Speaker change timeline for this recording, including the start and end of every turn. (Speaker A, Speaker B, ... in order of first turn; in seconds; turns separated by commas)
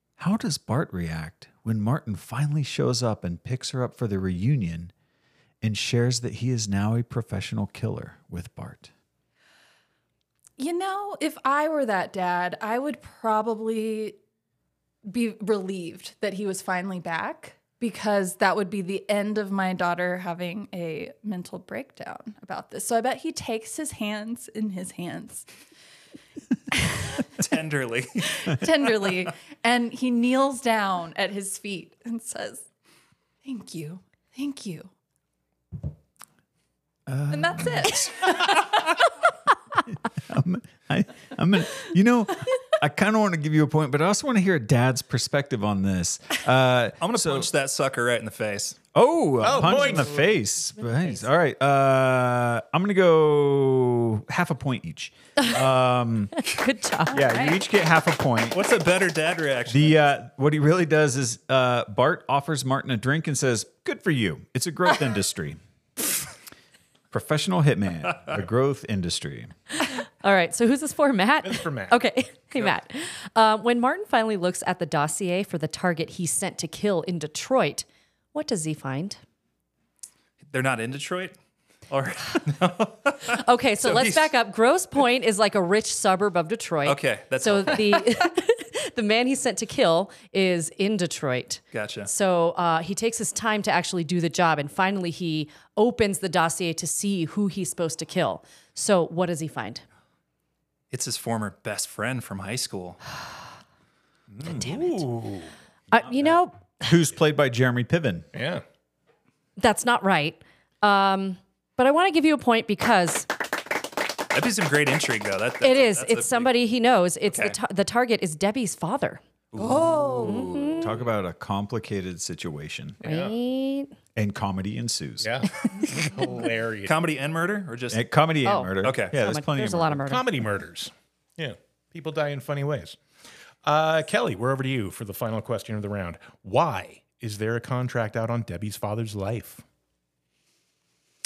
Speaker A: 0.2-4.9, Speaker A: 5.6-8.9, Speaker B: 10.6-14.2, Speaker B: 15.1-25.5, Speaker C: 27.3-29.1, Speaker B: 28.4-32.6, Speaker B: 33.4-34.9, Speaker A: 37.1-38.3, Speaker B: 37.3-38.6, Speaker A: 39.9-47.5, Speaker C: 47.0-48.8, Speaker A: 48.9-56.5, Speaker D: 49.4-50.3, Speaker E: 49.6-50.2, Speaker E: 50.8-51.2, Speaker E: 56.5-57.2, Speaker A: 57.1-58.6, Speaker B: 57.1-57.6, Speaker C: 58.5-60.0, Speaker A: 59.7-65.6, Speaker A: 67.1-69.5, Speaker E: 70.0-79.2, Speaker D: 71.4-72.0, Speaker C: 80.5-81.3, Speaker C: 81.9-84.2, Speaker E: 83.3-99.8, Speaker C: 86.8-88.1, Speaker C: 91.7-92.1, Speaker C: 100.9-103.0, Speaker D: 104.4-105.5, Speaker E: 104.5-105.0, Speaker E: 105.9-106.9, Speaker A: 106.8-108.2, Speaker D: 108.3-108.6, Speaker E: 109.6-113.3, Speaker C: 114.3-116.5, Speaker E: 115.6-119.2, Speaker A: 119.5-123.0, Speaker B: 119.6-120.5, Speaker E: 120.2-120.9, Speaker D: 123.0-123.3, Speaker E: 123.0-123.9, Speaker A: 124.2-125.4, Speaker D: 125.2-127.0, Speaker C: 126.8-128.0, Speaker A: 127.9-130.0, Speaker E: 128.4-130.3, Speaker C: 128.8-129.1, Speaker D: 130.0-133.0, Speaker D: 133.6-139.6